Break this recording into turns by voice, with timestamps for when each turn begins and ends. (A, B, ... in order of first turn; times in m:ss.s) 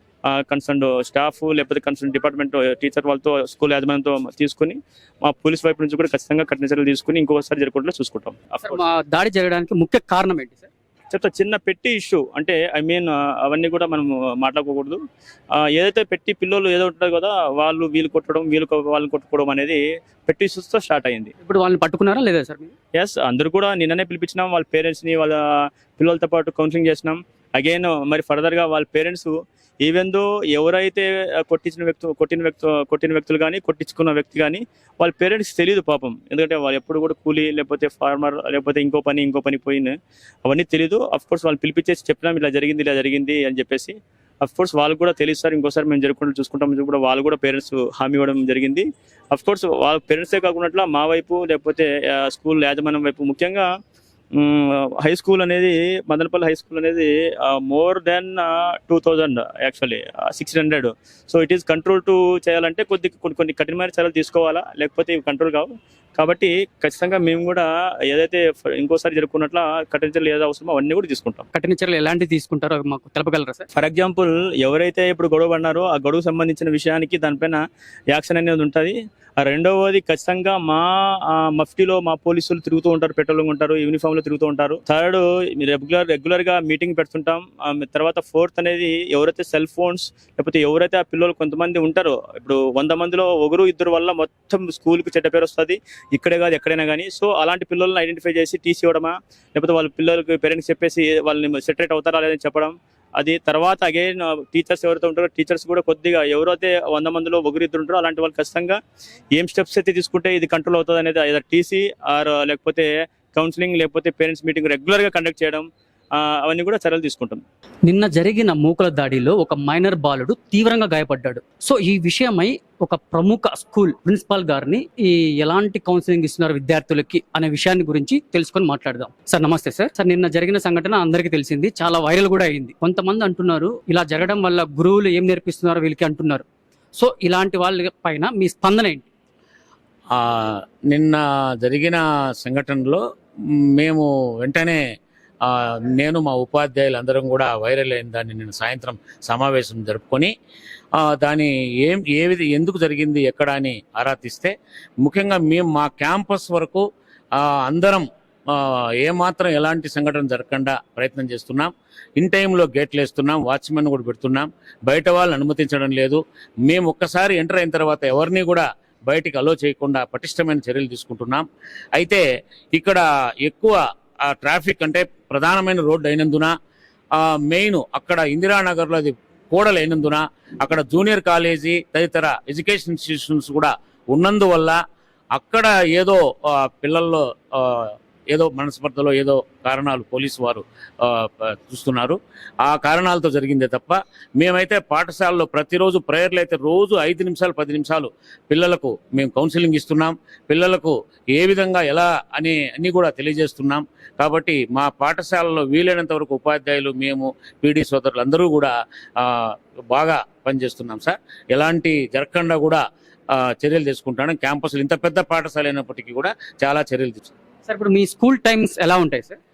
0:00.3-0:08.8 A
0:08.6-0:10.7 B
0:11.1-0:15.0 A
0:15.7-0:21.3 A
0:21.4-0:22.7 B
0:23.0-0:25.4 A
0:26.0-0:39.9 A
0:40.4-0:53.7 A
0:54.4-1:11.4 A
1:11.5-1:13.7 B
1:13.8-1:17.6 A
1:18.1-1:48.8 A
1:49.4-1:55.7 A
1:56.2-1:57.4 A
1:57.9-2:16.4 B
2:17.0-2:19.0 B
2:20.1-2:23.0 C
2:23.8-2:24.8 C
2:25.5-2:30.3 C
2:31.0-2:36.8 C
2:37.4-2:51.4 C
2:52.0-2:52.2 C
2:52.7-2:53.8 C
2:54.3-2:56.5 C
2:57.2-3:04.8 C
3:05.4-3:32.8 C
3:33.4-3:37.3 C
3:37.6-3:39.4 B